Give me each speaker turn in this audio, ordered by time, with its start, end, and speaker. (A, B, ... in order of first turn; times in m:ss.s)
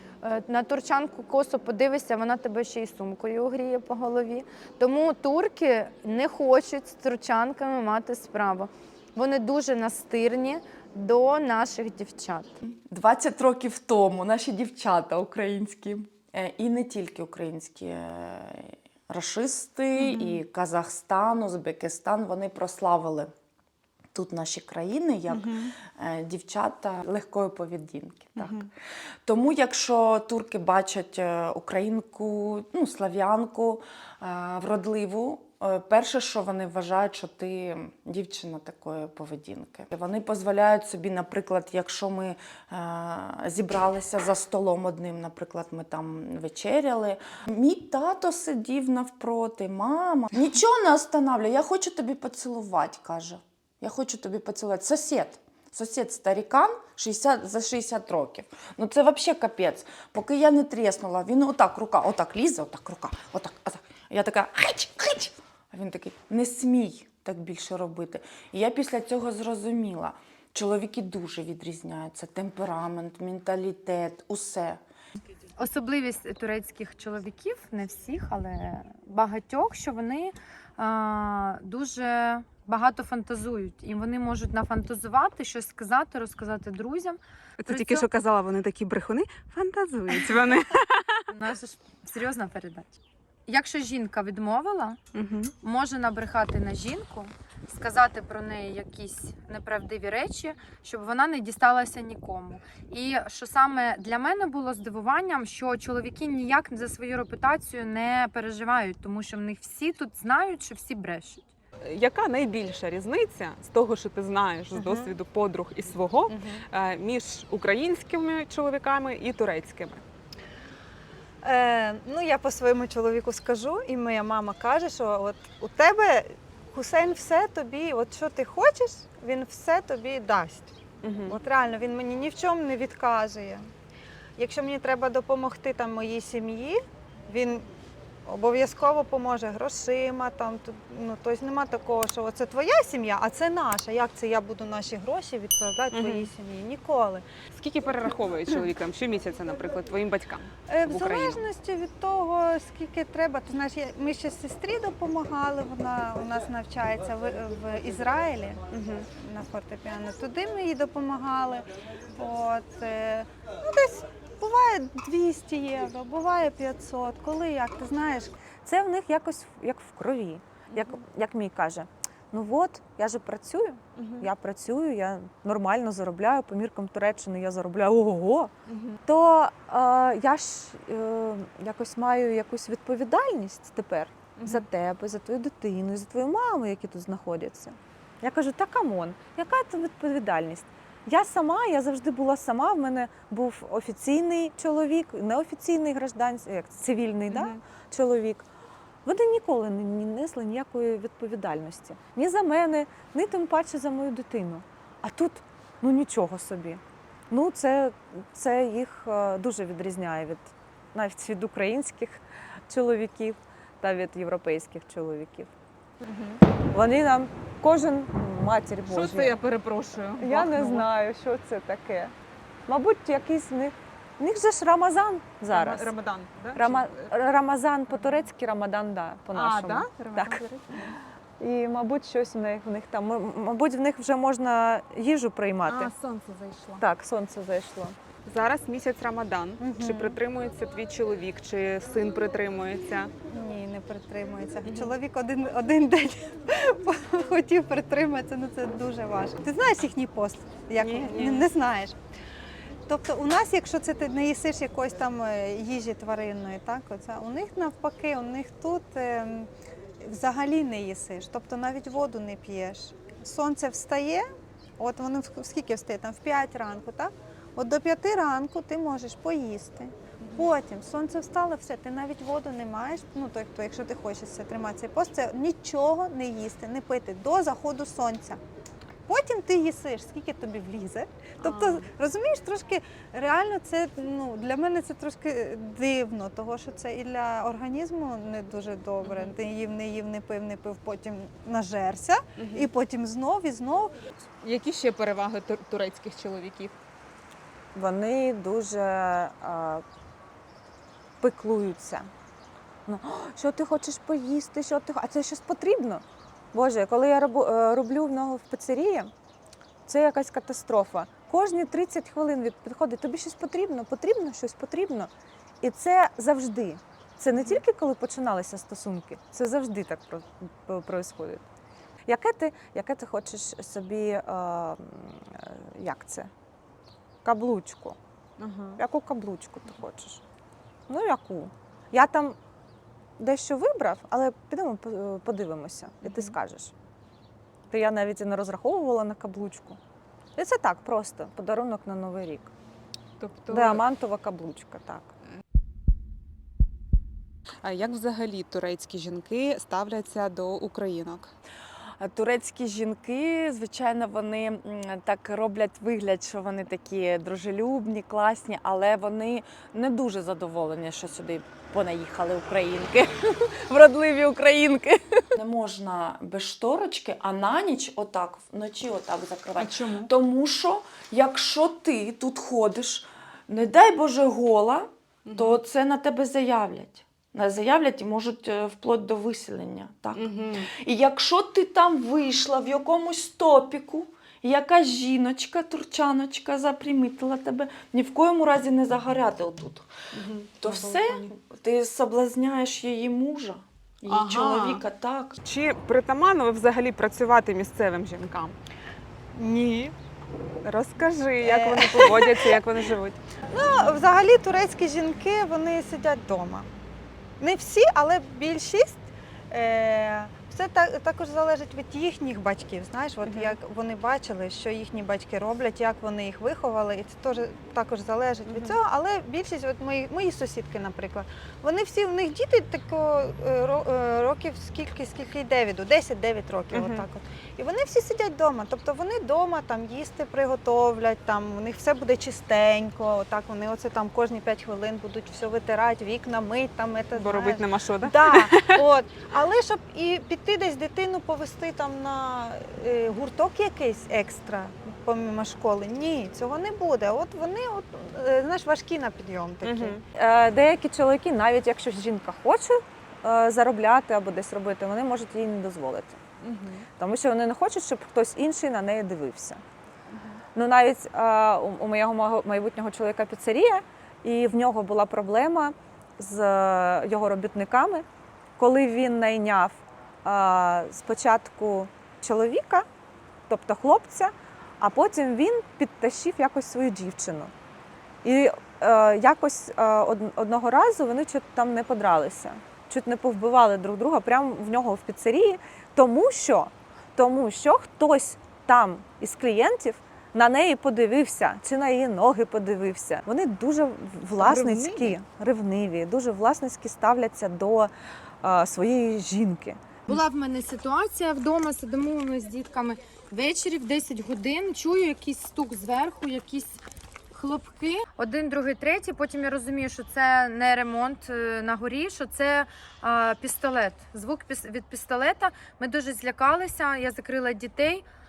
0:00.2-0:12.6 A
0:12.6-0:23.3 B
0:20.0-0:20.4 C
0:24.1-0:28.7 B
0:25.3-0:25.7 C
0:28.4-0:28.7 C
0:29.3-1:14.8 B
1:15.6-1:28.1 A
1:27.6-1:31.3 C
1:31.3-1:35.0 A
1:35.1-1:35.5 C
1:35.6-1:51.4 A
1:51.8-2:00.0 C
1:54.8-1:55.1 D
1:56.3-1:56.6 D
2:01.4-2:13.7 D
2:11.0-2:11.4 C
2:14.4-2:17.7 D
2:18.3-2:27.3 D
2:25.9-2:26.3 C
2:27.5-2:31.5 C
2:30.7-2:38.6 D
2:38.7-2:39.1 C
2:39.1-2:48.4 D
2:48.6-2:58.5 E
2:50.7-2:51.0 C
2:54.0-2:54.3 C
2:58.7-2:59.0 C
2:59.1-3:18.5 E
3:04.4-3:04.7 C
3:17.3-3:17.6 C
3:19.0-3:35.5 E
3:36.0-3:36.4 C
3:36.7-3:39.4 E
3:38.9-3:40.9 C
3:40.2-3:42.1 E
3:42.7-3:45.9 E
3:45.5-3:47.1 C
3:46.6-3:50.4 E
3:49.3-3:51.0 C
3:51.4-3:55.9 E
3:55.7-3:56.8 C
3:56.8-3:58.0 E
3:58.3-4:03.1 C
3:59.6-4:00.2 D
4:03.3-4:12.0 D
4:04.7-4:05.0 C
4:10.8-4:11.5 C
4:12.9-4:24.3 D
4:24.8-4:38.4 D
4:30.2-4:30.5 C
4:39.1-4:54.0 D
4:41.4-4:41.9 C
4:49.0-4:49.3 C
4:52.4-4:52.7 C
4:54.4-4:56.8 C
4:57.8-4:59.8 E
5:01.2-5:02.1 E
5:02.9-5:09.1 E
5:09.9-5:15.1 E
5:15.6-5:21.4 E
5:22.1-5:26.3 E
5:27.2-5:28.0 E
5:28.4-5:28.8 C
5:28.8-5:30.2 E
5:30.9-5:32.4 E
5:33.2-5:36.7 E
5:36.0-5:36.4 C
5:37.7-5:39.8 E
5:40.4-5:42.5 E
5:43.2-5:43.8 C
5:43.5-5:45.1 E
5:47.6-5:51.3 C
5:52.0-6:29.9 B
6:09.6-6:10.1 C
6:15.2-6:15.6 C
6:20.2-6:20.7 C
6:30.1-6:31.3 C
6:30.6-6:35.4 B
6:34.1-6:34.8 C
6:35.4-6:38.6 C
6:39.3-6:39.9 D
6:40.6-6:43.2 C
6:41.4-6:42.6 D
6:43.5-6:46.7 D
6:47.4-7:30.0 D
6:53.2-6:53.6 C
6:58.5-6:58.8 C
7:06.7-7:07.1 C
7:17.2-7:18.8 C
7:29.6-7:30.0 C
7:30.1-7:36.2 E
7:36.4-7:36.9 C
7:37.0-7:39.6 E
7:40.1-7:40.4 C
7:40.6-7:48.0 E
7:48.6-7:52.9 E
7:53.5-7:57.5 E
7:58.2-8:17.9 E
8:14.4-8:15.2 C
8:18.4-8:19.9 E
8:20.1-8:26.8 A
8:27.3-8:38.0 A